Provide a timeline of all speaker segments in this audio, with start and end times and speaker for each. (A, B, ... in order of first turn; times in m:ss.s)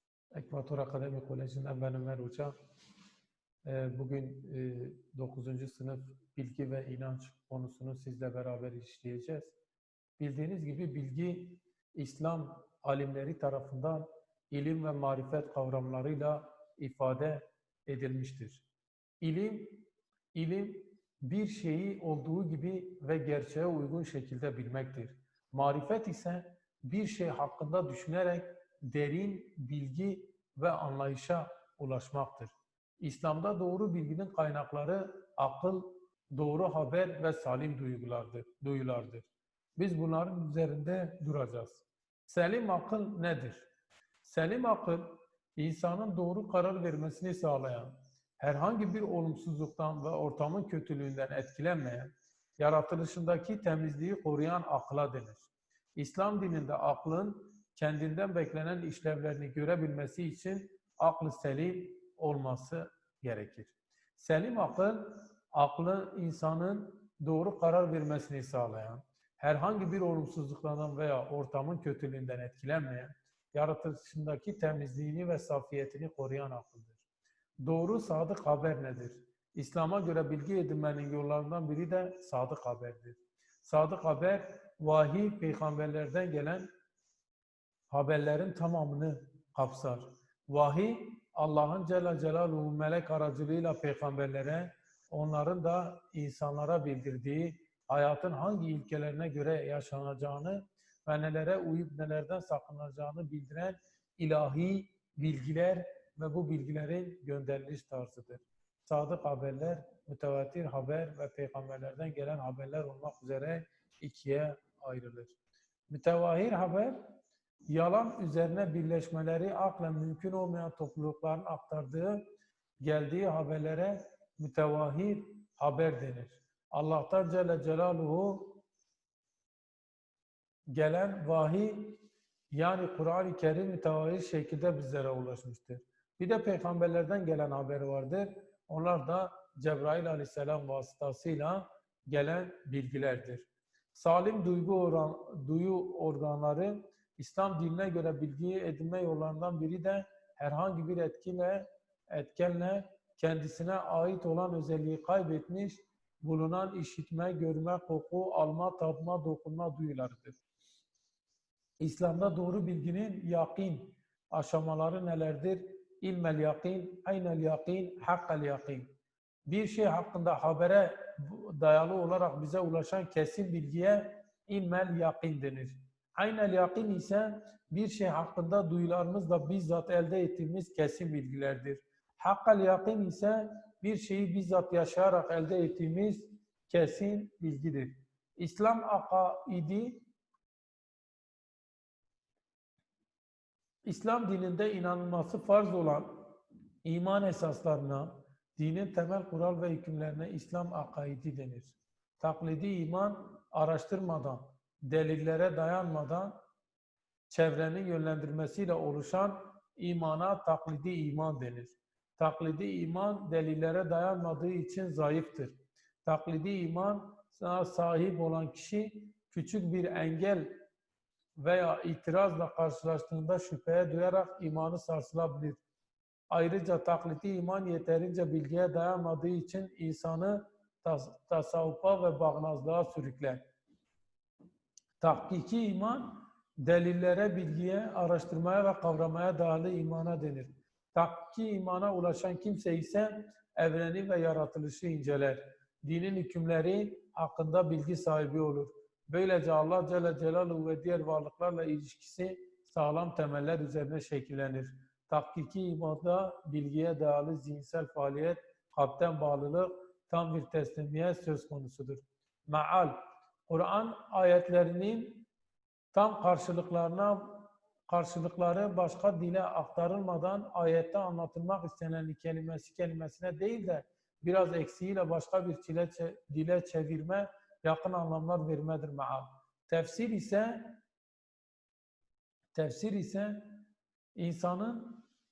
0:00.3-0:02.5 A
0:03.6-0:09.5 A
0:10.2-0:18.6 A
0:19.2-0:43.6 A
0:44.2-0:55.4 A
0:56.0-1:17.0 A
1:17.6-1:26.7 A
1:27.9-1:55.4 A
1:55.9-1:57.2 A
1:57.7-2:02.2 A
2:02.8-2:08.6 A
2:10.7-2:12.0 A
2:12.5-2:40.4 A
2:41.8-2:48.9 A
2:49.5-3:10.0 A
3:13.9-3:16.3 A
3:16.8-3:26.4 A
3:27.3-3:40.5 A
3:41.4-3:45.6 A
3:46.3-3:53.4 A
3:55.0-4:23.0 A
4:23.5-4:25.3 A
4:25.9-4:40.8 A
4:42.5-4:43.6 A
4:44.2-4:45.0 A